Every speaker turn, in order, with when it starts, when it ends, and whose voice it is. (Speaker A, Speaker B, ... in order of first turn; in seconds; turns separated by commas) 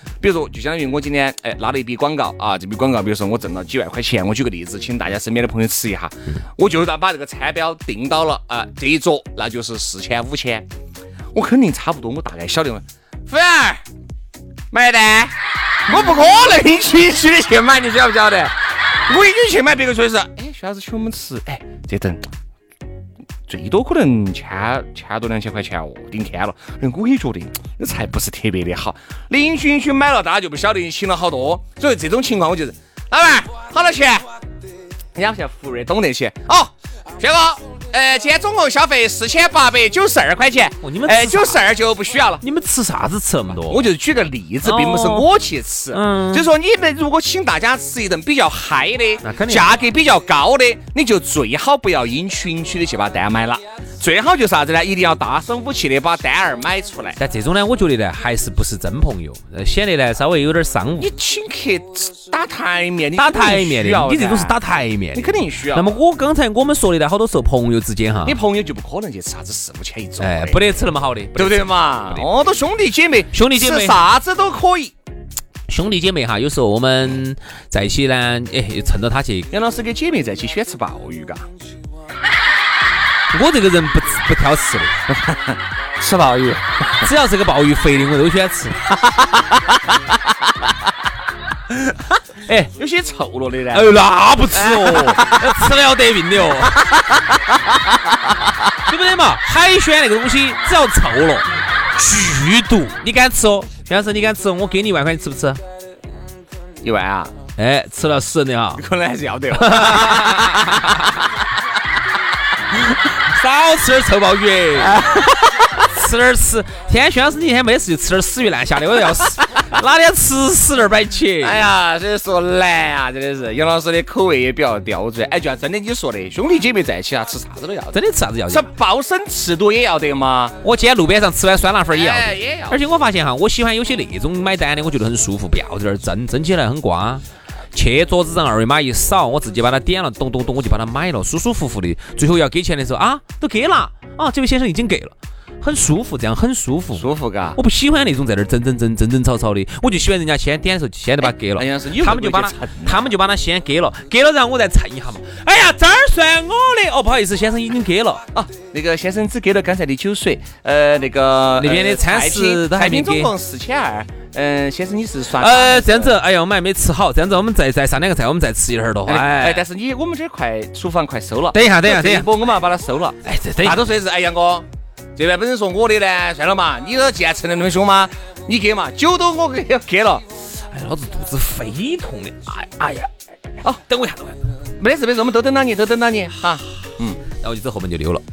Speaker A: 0.2-10.7, Speaker A: 11.3-13.8, Speaker A: 14.7-15.3, Speaker A: 15.9-18.6, Speaker A: 19.1-22.2, Speaker A: 23.5-34.2, Speaker A: 35.1-42.4, Speaker B: 40.8-41.6, Speaker B: 42.4-43.8, Speaker A: 43.7-57.2, Speaker B: 44.6-45.3, Speaker B: 45.9-46.5, Speaker B: 49.2-49.8, Speaker B: 57.2-61.1, Speaker A: 61.0-64.5, Speaker B: 63.2-68.4, Speaker A: 65.1-66.0, Speaker A: 68.2-70.6, Speaker B: 70.2-72.3, Speaker A: 71.3-74.9, Speaker B: 73.3-74.0, Speaker B: 75.7-79.5, Speaker A: 79.5-81.4, Speaker B: 83.3-84.9, Speaker A: 85.1-87.0, Speaker B: 87.0-88.8, Speaker A: 89.2-89.8, Speaker A: 91.7-92.0, Speaker A: 92.7-93.9, Speaker B: 93.7-96.8, Speaker A: 94.5-95.5, Speaker A: 96.6-98.5, Speaker B: 98.9-105.6, Speaker A: 106.8-107.3, Speaker B: 107.6-108.8, Speaker A: 108.8-111.1, Speaker B: 109.5-111.0, Speaker B: 113.2-115.1, Speaker A: 114.8-115.8, Speaker B: 115.9-121.6, Speaker A: 119.2-119.6, Speaker A: 121.4-130.6, Speaker B: 127.9-128.7, Speaker B: 130.6-158.2, Speaker A: 131.9-132.8, Speaker A: 147.0-147.6, Speaker A: 151.2-153.1, Speaker A: 158.3-166.2, Speaker B: 161.6-163.3, Speaker B: 165.4-169.6, Speaker A: 169.1-174.7, Speaker B: 171.5-172.3, Speaker B: 173.2-173.8, Speaker A: 175.2-180.2, Speaker B: 180.7-183.1, Speaker B: 183.9-184.3, Speaker A: 184.8-187.2, Speaker B: 187.4-188.2